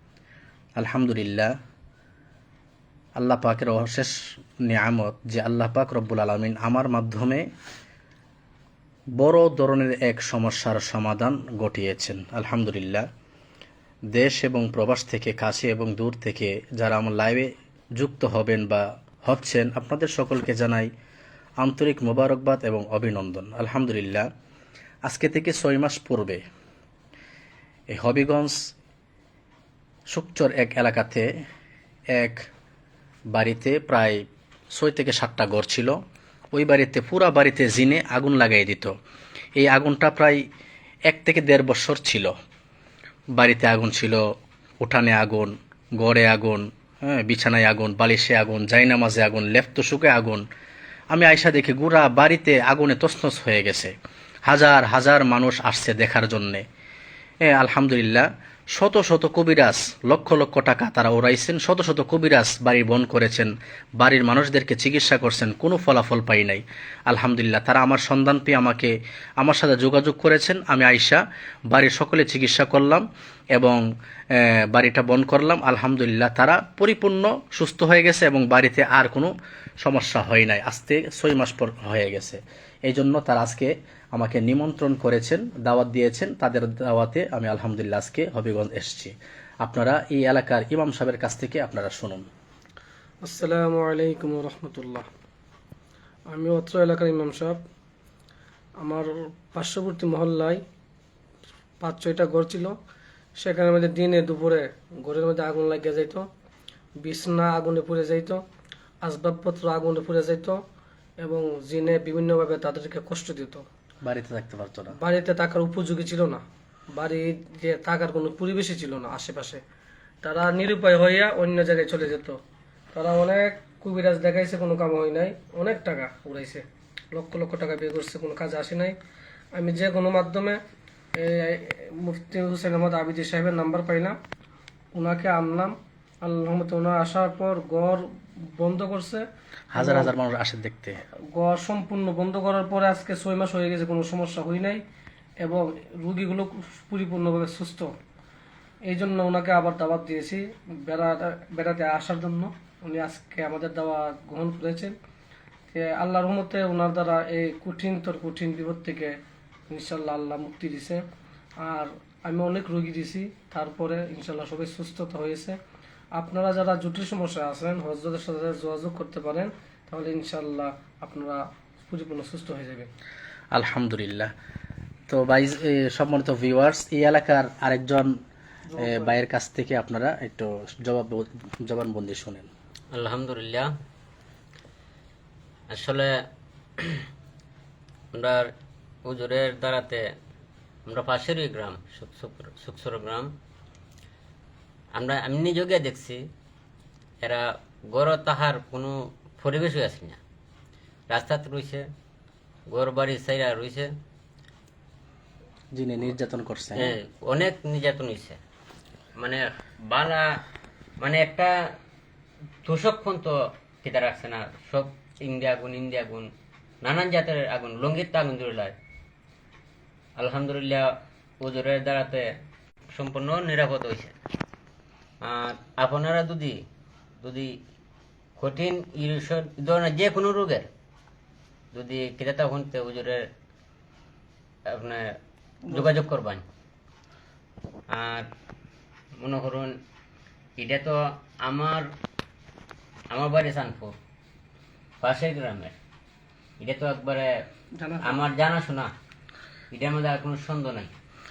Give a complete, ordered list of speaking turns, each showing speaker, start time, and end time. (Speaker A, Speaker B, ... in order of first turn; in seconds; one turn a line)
Speaker A: 0.8-1.5
Speaker A: 3.2-7.5
Speaker A: 9.2-13.1
Speaker A: 14.1-20.9
Speaker A: 21.6-24.3
Speaker A: 25.1-26.4
Speaker A: 27.9-28.6
Speaker A: 30.1-31.3
Speaker A: 32.1-32.5
Speaker A: 33.3-36.0
Speaker A: 36.5-39.0
Speaker A: 39.6-40.5
Speaker A: 41.1-42.3
Speaker A: 43.4-44.2
Speaker A: 44.8-50.5
Speaker A: 51.1-53.9
Speaker A: 54.5-56.6
Speaker A: 57.5-73.8
Speaker A: 74.3-79.3
Speaker A: 79.8-92.3
Speaker B: 93.2-95.1
Speaker B: 96.3-97.6
Speaker B: 98.8-100.6
Speaker B: 101.8-102.8
Speaker B: 103.4-106.2
Speaker B: 107.0-108.4
Speaker B: 109.0-110.6
Speaker B: 111.2-113.7
Speaker A: 114.0-115.0
Speaker B: 114.9-116.4
Speaker B: 116.9-119.6
Speaker B: 120.2-122.4
Speaker B: 122.9-129.0
Speaker B: 129.5-130.6
Speaker B: 131.2-134.2
Speaker B: 134.9-140.1
Speaker A: 139.7-141.0
Speaker B: 141.3-144.8
Speaker B: 145.4-147.9
Speaker B: 148.9-154.9
Speaker B: 155.7-159.2
Speaker B: 159.7-161.0
Speaker B: 161.6-165.6
Speaker B: 166.2-172.9
Speaker A: 173.5-174.3
Speaker A: 175.1-178.2
Speaker B: 178.7-179.1
Speaker A: 178.8-182.5
Speaker C: 182.9-183.7
Speaker C: 185.7-186.2
Speaker C: 186.8-187.1
Speaker C: 188.1-188.5
Speaker C: 189.1-190.0
Speaker C: 190.9-193.3
Speaker C: 194.9-196.2
Speaker C: 197.2-200.2
Speaker C: 201.1-201.8
Speaker C: 202.7-203.9
Speaker A: 205.8-206.9
Speaker C: 206.8-208.4
Speaker C: 209.2-210.3
Speaker C: 211.0-211.6
Speaker C: 212.7-216.3
Speaker C: 216.8-218.8
Speaker C: 220.2-222.3
Speaker C: 222.9-224.1
Speaker C: 225.2-226.6
Speaker C: 227.2-227.6
Speaker C: 228.4-230.7
Speaker C: 231.7-233.3
Speaker C: 234.7-235.1
Speaker C: 235.7-236.4
Speaker C: 237.9-238.3
Speaker C: 239.2-239.8
Speaker C: 240.6-241.9
Speaker C: 243.1-244.0
Speaker C: 245.0-245.7
Speaker C: 246.6-247.3
Speaker B: 247.8-248.2
Speaker C: 248.0-248.9
Speaker C: 249.7-250.9